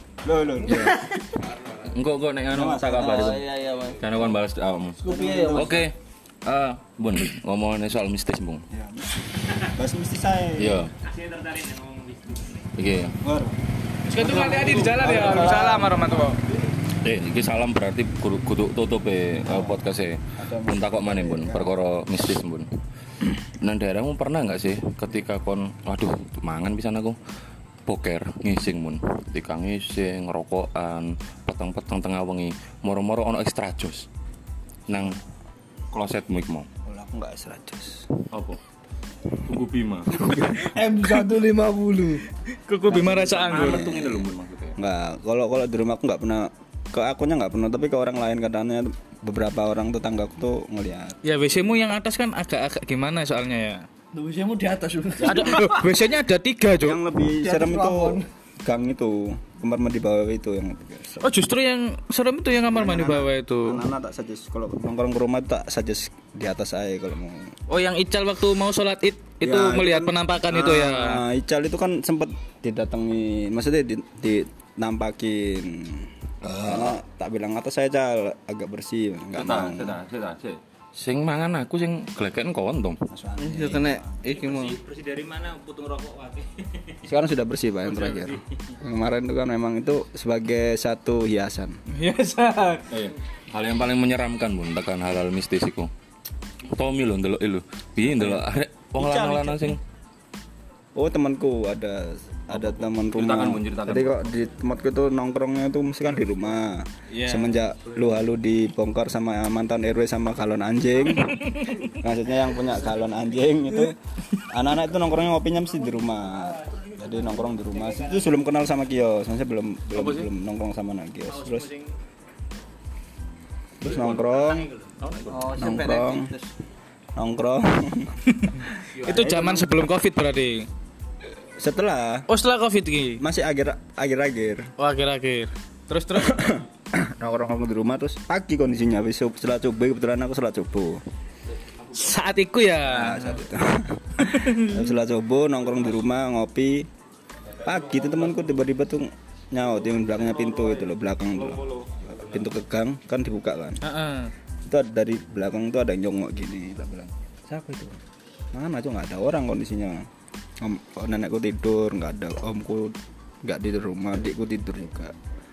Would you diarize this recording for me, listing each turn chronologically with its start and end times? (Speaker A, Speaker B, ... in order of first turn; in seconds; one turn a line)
Speaker A: 0.2-1.1
Speaker B: 0.7-0.9
Speaker B: 1.8-8.6
Speaker A: 2.5-3.4
Speaker C: 3.0-4.0
Speaker C: 5.0-5.8
Speaker A: 5.0-5.9
Speaker A: 8.7-10.8
Speaker B: 10.6-10.9
Speaker D: 11.0-12.7
Speaker B: 12.8-13.2
Speaker A: 13.2-13.6
Speaker E: 14.1-16.4
Speaker A: 14.1-16.6
Speaker B: 17.0-22.7
Speaker A: 19.5-19.8
Speaker A: 20.4-21.7
Speaker B: 23.6-27.2
Speaker B: 27.9-34.1
Speaker B: 34.9-35.2
Speaker B: 35.9-36.7
Speaker A: 36.9-38.1
Speaker B: 38.3-38.6
Speaker B: 39.4-40.3
Speaker A: 40.1-40.7
Speaker C: 40.5-42.2
Speaker E: 42.6-43.9
Speaker A: 42.9-51.2
Speaker B: 43.5-44.8
Speaker E: 51.2-53.9
Speaker C: 54.1-55.9
Speaker A: 55.2-55.7
Speaker E: 55.2-57.0
Speaker A: 56.8-61.4
Speaker C: 57.3-58.2
Speaker E: 61.2-63.8
Speaker A: 62.7-67.5
Speaker E: 67.7-71.2
Speaker A: 69.4-80.0
Speaker B: 76.5-76.9
Speaker B: 79.3-83.0
Speaker A: 83.1-84.0
Speaker C: 83.4-84.8
Speaker D: 84.3-87.0
Speaker A: 87.0-91.8
Speaker D: 87.9-88.5
Speaker E: 91.9-92.8
Speaker B: 92.9-95.9
Speaker B: 96.7-99.8
Speaker A: 98.0-98.4
Speaker A: 99.0-99.8
Speaker A: 100.9-121.7
Speaker B: 102.5-104.1
Speaker E: 107.1-107.6
Speaker E: 111.4-111.9
Speaker B: 119.9-120.3
Speaker D: 121.3-121.9
Speaker A: 123.8-124.7
Speaker D: 123.8-125.0
Speaker B: 125.0-125.5
Speaker C: 125.3-126.5
Speaker A: 125.5-126.3
Speaker A: 127.2-128.2
Speaker E: 128.4-130.7
Speaker D: 129.0-129.3
Speaker A: 129.1-129.7
Speaker A: 131.6-132.3
Speaker E: 132.3-133.2
Speaker A: 133.2-134.7
Speaker E: 134.8-136.5
Speaker A: 136.2-141.0
Speaker E: 141.9-143.4
Speaker A: 142.9-146.9
Speaker E: 144.2-144.8
Speaker A: 147.6-153.8
Speaker B: 151.5-151.8
Speaker E: 153.8-154.3
Speaker A: 154.7-158.0
Speaker A: 158.5-160.1
Speaker A: 160.6-165.1